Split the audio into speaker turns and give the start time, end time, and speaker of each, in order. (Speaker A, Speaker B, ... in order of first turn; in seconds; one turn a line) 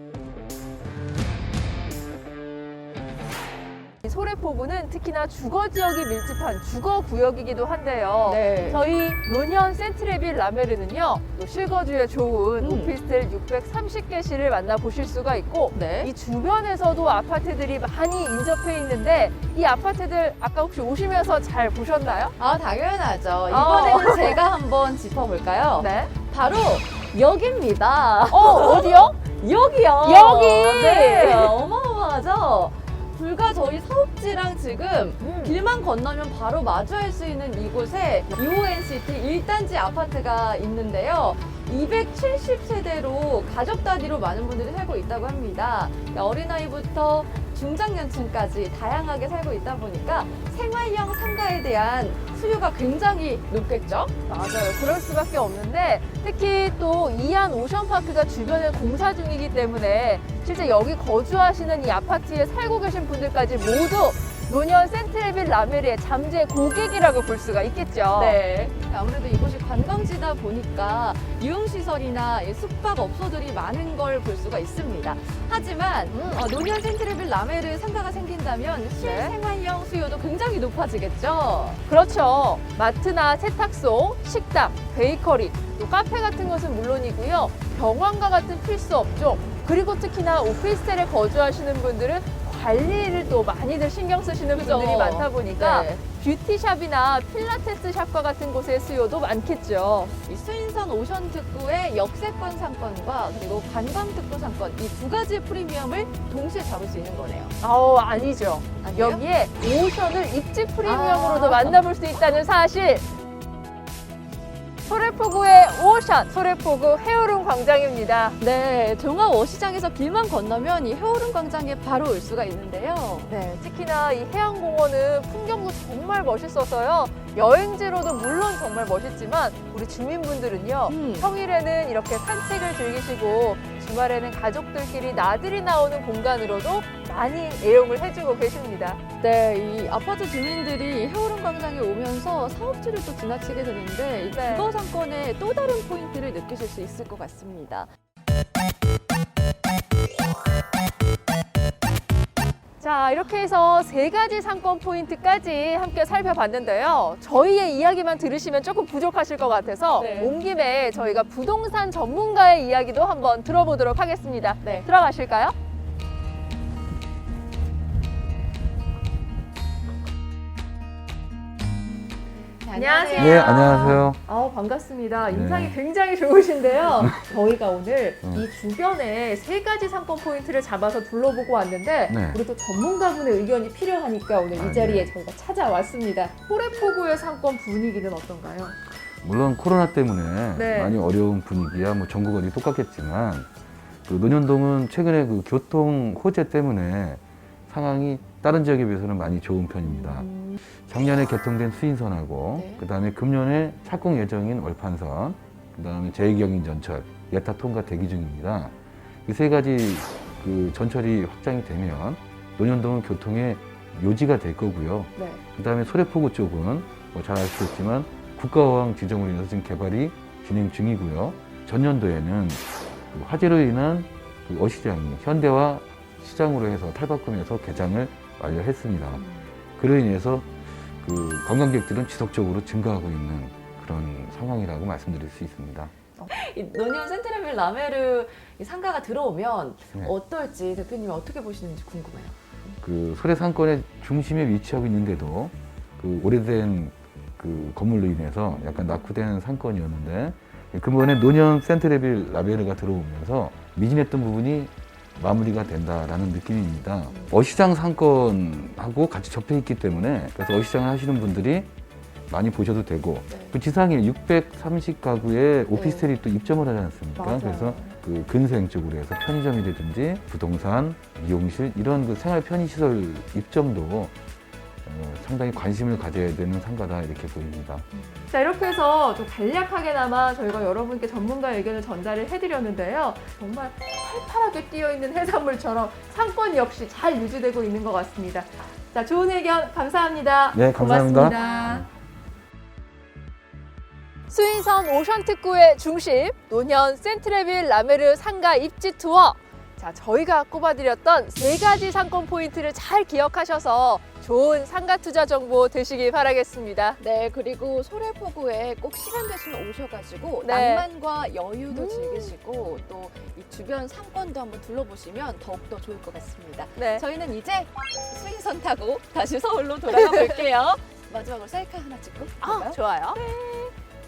Speaker A: 4.0-22.3
Speaker B: 8.2-8.8
Speaker B: 12.6-12.9
Speaker B: 15.7-16.1
Speaker B: 22.4-54.1
Speaker A: 23.5-24.4
Speaker A: 25.8-26.1
Speaker A: 28.3-29.2
Speaker A: 30.0-31.6
Speaker A: 35.2-35.6
Speaker A: 54.3-68.4
Speaker B: 68.1-81.8
Speaker A: 76.1-76.4
Speaker A: 79.0-79.3
Speaker A: 81.9-100.2
Speaker B: 94.5-96.0
Speaker B: 100.3-107.5
Speaker A: 107.6-113.1
Speaker B: 108.8-109.2
Speaker B: 110.8-111.9
Speaker A: 114.8-118.4
Speaker B: 118.4-123.3
Speaker A: 123.3-139.0
Speaker B: 130.9-131.3
Speaker B: 139.2-147.9
Speaker A: 144.3-144.7
Speaker A: 152.8-165.5
Speaker B: 159.9-160.3
Speaker B: 172.6-173.6
Speaker A: 172.7-188.7
Speaker C: 173.2-174.2
Speaker C: 175.2-175.8
Speaker C: 177.0-177.3
Speaker C: 182.1-182.4
Speaker C: 184.5-185.1
Speaker C: 189.2-193.5
Speaker A: 190.5-191.0
Speaker C: 194.1-200.3
Speaker B: 199.8-200.6
Speaker C: 200.8-208.7
Speaker B: 202.5-202.8
Speaker C: 209.2-229.3
Speaker C: 229.8-235.9
Speaker B: 236.3-242.7
Speaker C: 242.8-261.7
Speaker C: 262.3-274.1
Speaker B: 265.7-266.0
Speaker A: 267.1-267.9
Speaker C: 274.8-277.9
Speaker A: 278.3-291.9
Speaker C: 290.5-291.8
Speaker A: 294.3-307.0
Speaker B: 307.0-323.7
Speaker A: 310.4-310.9
Speaker A: 311.7-312.3
Speaker A: 316.8-317.0
Speaker A: 319.9-320.4
Speaker A: 322.4-323.2